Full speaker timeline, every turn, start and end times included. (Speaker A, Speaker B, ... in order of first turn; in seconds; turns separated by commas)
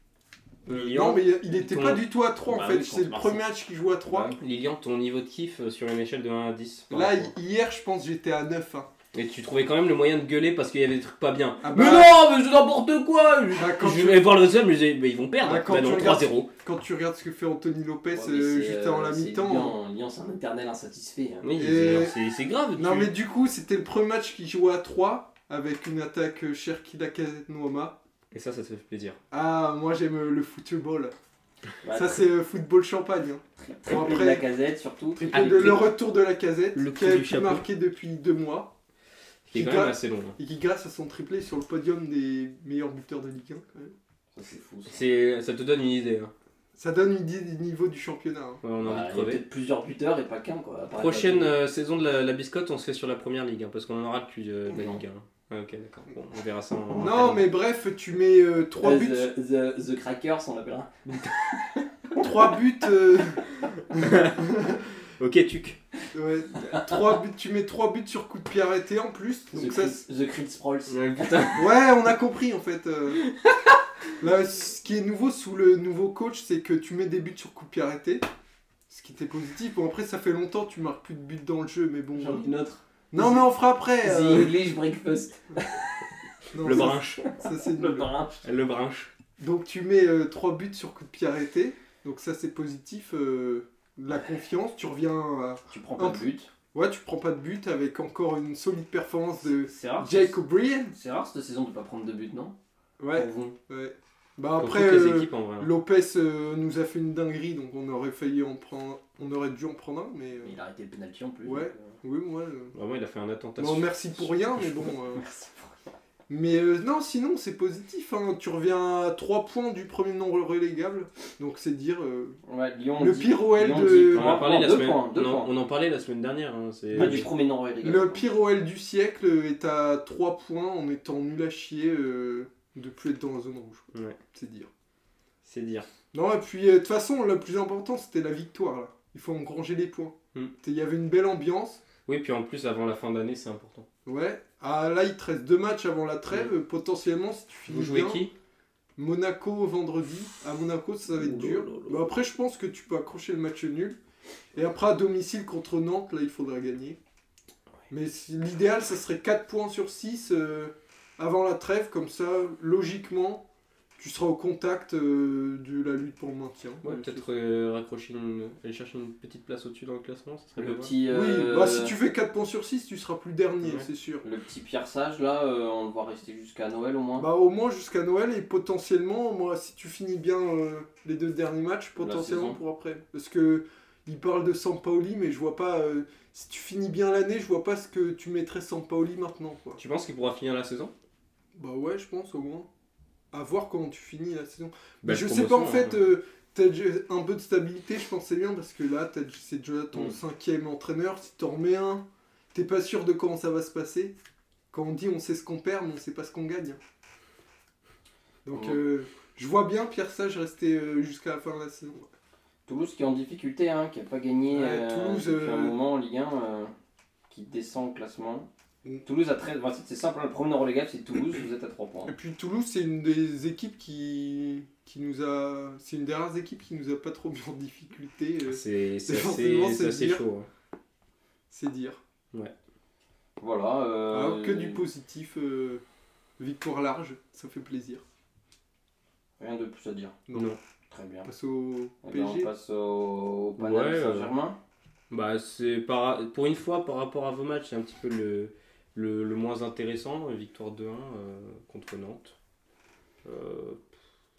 Speaker A: 0.7-2.0, Speaker B: 0.7-4.3, Speaker C: 2.5-3.4, Speaker A: 4.1-7.3, Speaker B: 6.9-8.9, Speaker A: 9.1-11.8, Speaker B: 11.6-12.1, Speaker C: 11.7-13.7, Speaker B: 13.5-14.3, Speaker A: 13.6-16.5, Speaker B: 15.4-19.8, Speaker C: 18.1-21.5, Speaker A: 21.4-23.1, Speaker B: 21.6-22.2, Speaker B: 22.8-28.0, Speaker A: 28.3-29.2, Speaker B: 29.3-31.1, Speaker C: 31.8-32.2, Speaker B: 31.9-34.5, Speaker C: 33.6-35.8, Speaker B: 35.1-38.7, Speaker A: 35.3-35.9, Speaker A: 36.7-37.6, Speaker A: 39.5-40.4, Speaker B: 39.5-44.0, Speaker C: 44.3-45.0, Speaker A: 44.9-46.3, Speaker B: 46.8-48.6, Speaker A: 48.6-49.4, Speaker C: 48.8-51.5, Speaker A: 50.9-57.5, Speaker C: 54.7-55.0, Speaker B: 56.9-59.3, Speaker C: 58.8-62.2, Speaker A: 61.1-61.6, Speaker B: 62.2-64.8, Speaker A: 63.8-64.5, Speaker A: 65.0-65.8, Speaker B: 66.1-70.0, Speaker C: 66.6-67.0, Speaker C: 69.5-71.6, Speaker A: 70.9-71.7, Speaker B: 71.5-73.2, Speaker A: 73.2-73.8, Speaker B: 74.2-78.2, Speaker B: 78.9-82.5, Speaker C: 82.2-83.5, Speaker B: 83.1-84.5, Speaker C: 84.0-86.1, Speaker B: 86.5-88.1, Speaker A: 86.5-87.2, Speaker C: 87.7-88.4, Speaker A: 88.4-89.1, Speaker B: 89.4-96.2, Speaker C: 95.7-96.5, Speaker B: 96.7-100.9, Speaker C: 99.7-100.4, Speaker C: 100.9-102.5, Speaker B: 103.0-110.5, Speaker C: 103.1-103.5, Speaker A: 104.6-105.7, Speaker C: 110.4-112.0, Speaker B: 111.4-112.7, Speaker A: 112.7-114.9, Speaker B: 113.6-115.2, Speaker C: 115.1-115.8, Speaker B: 116.3-122.4, Speaker C: 122.5-125.5, Speaker B: 123.0-124.4, Speaker A: 124.1-127.3, Speaker B: 126.9-127.3, Speaker C: 126.9-128.3, Speaker B: 127.8-134.7, Speaker A: 133.9-134.2, Speaker A: 135.4-135.9, Speaker B: 136.1-141.8, Speaker A: 142.1-143.8, Speaker B: 144.1-148.2, Speaker A: 147.7-148.3, Speaker B: 149.0-154.0, Speaker A: 151.1-152.1, Speaker B: 154.5-157.0, Speaker B: 157.9-163.4, Speaker B: 164.0-167.2, Speaker A: 166.8-170.9, Speaker C: 170.6-171.9, Speaker B: 171.1-174.2, Speaker C: 174.2-177.3, Speaker B: 177.2-189.8, Speaker C: 182.0-182.6, Speaker A: 189.8-190.9, Speaker B: 191.5-192.7, Speaker B: 193.3-204.2, Speaker A: 195.0-196.1, Speaker B: 204.7-206.8, Speaker B: 208.4-212.1, Speaker C: 208.5-208.8, Speaker C: 212.7-216.7, Speaker B: 214.5-215.8, Speaker C: 217.3-218.5, Speaker C: 219.0-222.1, Speaker B: 222.1-230.2, Speaker A: 228.4-230.5, Speaker B: 231.5-232.0, Speaker C: 233.4-234.8, Speaker B: 234.1-235.8, Speaker B: 236.4-238.0, Speaker C: 239.4-240.2, Speaker A: 240.3-240.6, Speaker C: 240.9-241.3, Speaker B: 241.2-242.5, Speaker C: 242.0-244.6, Speaker A: 243.6-244.3, Speaker A: 245.1-252.3, Speaker A: 253.2-253.9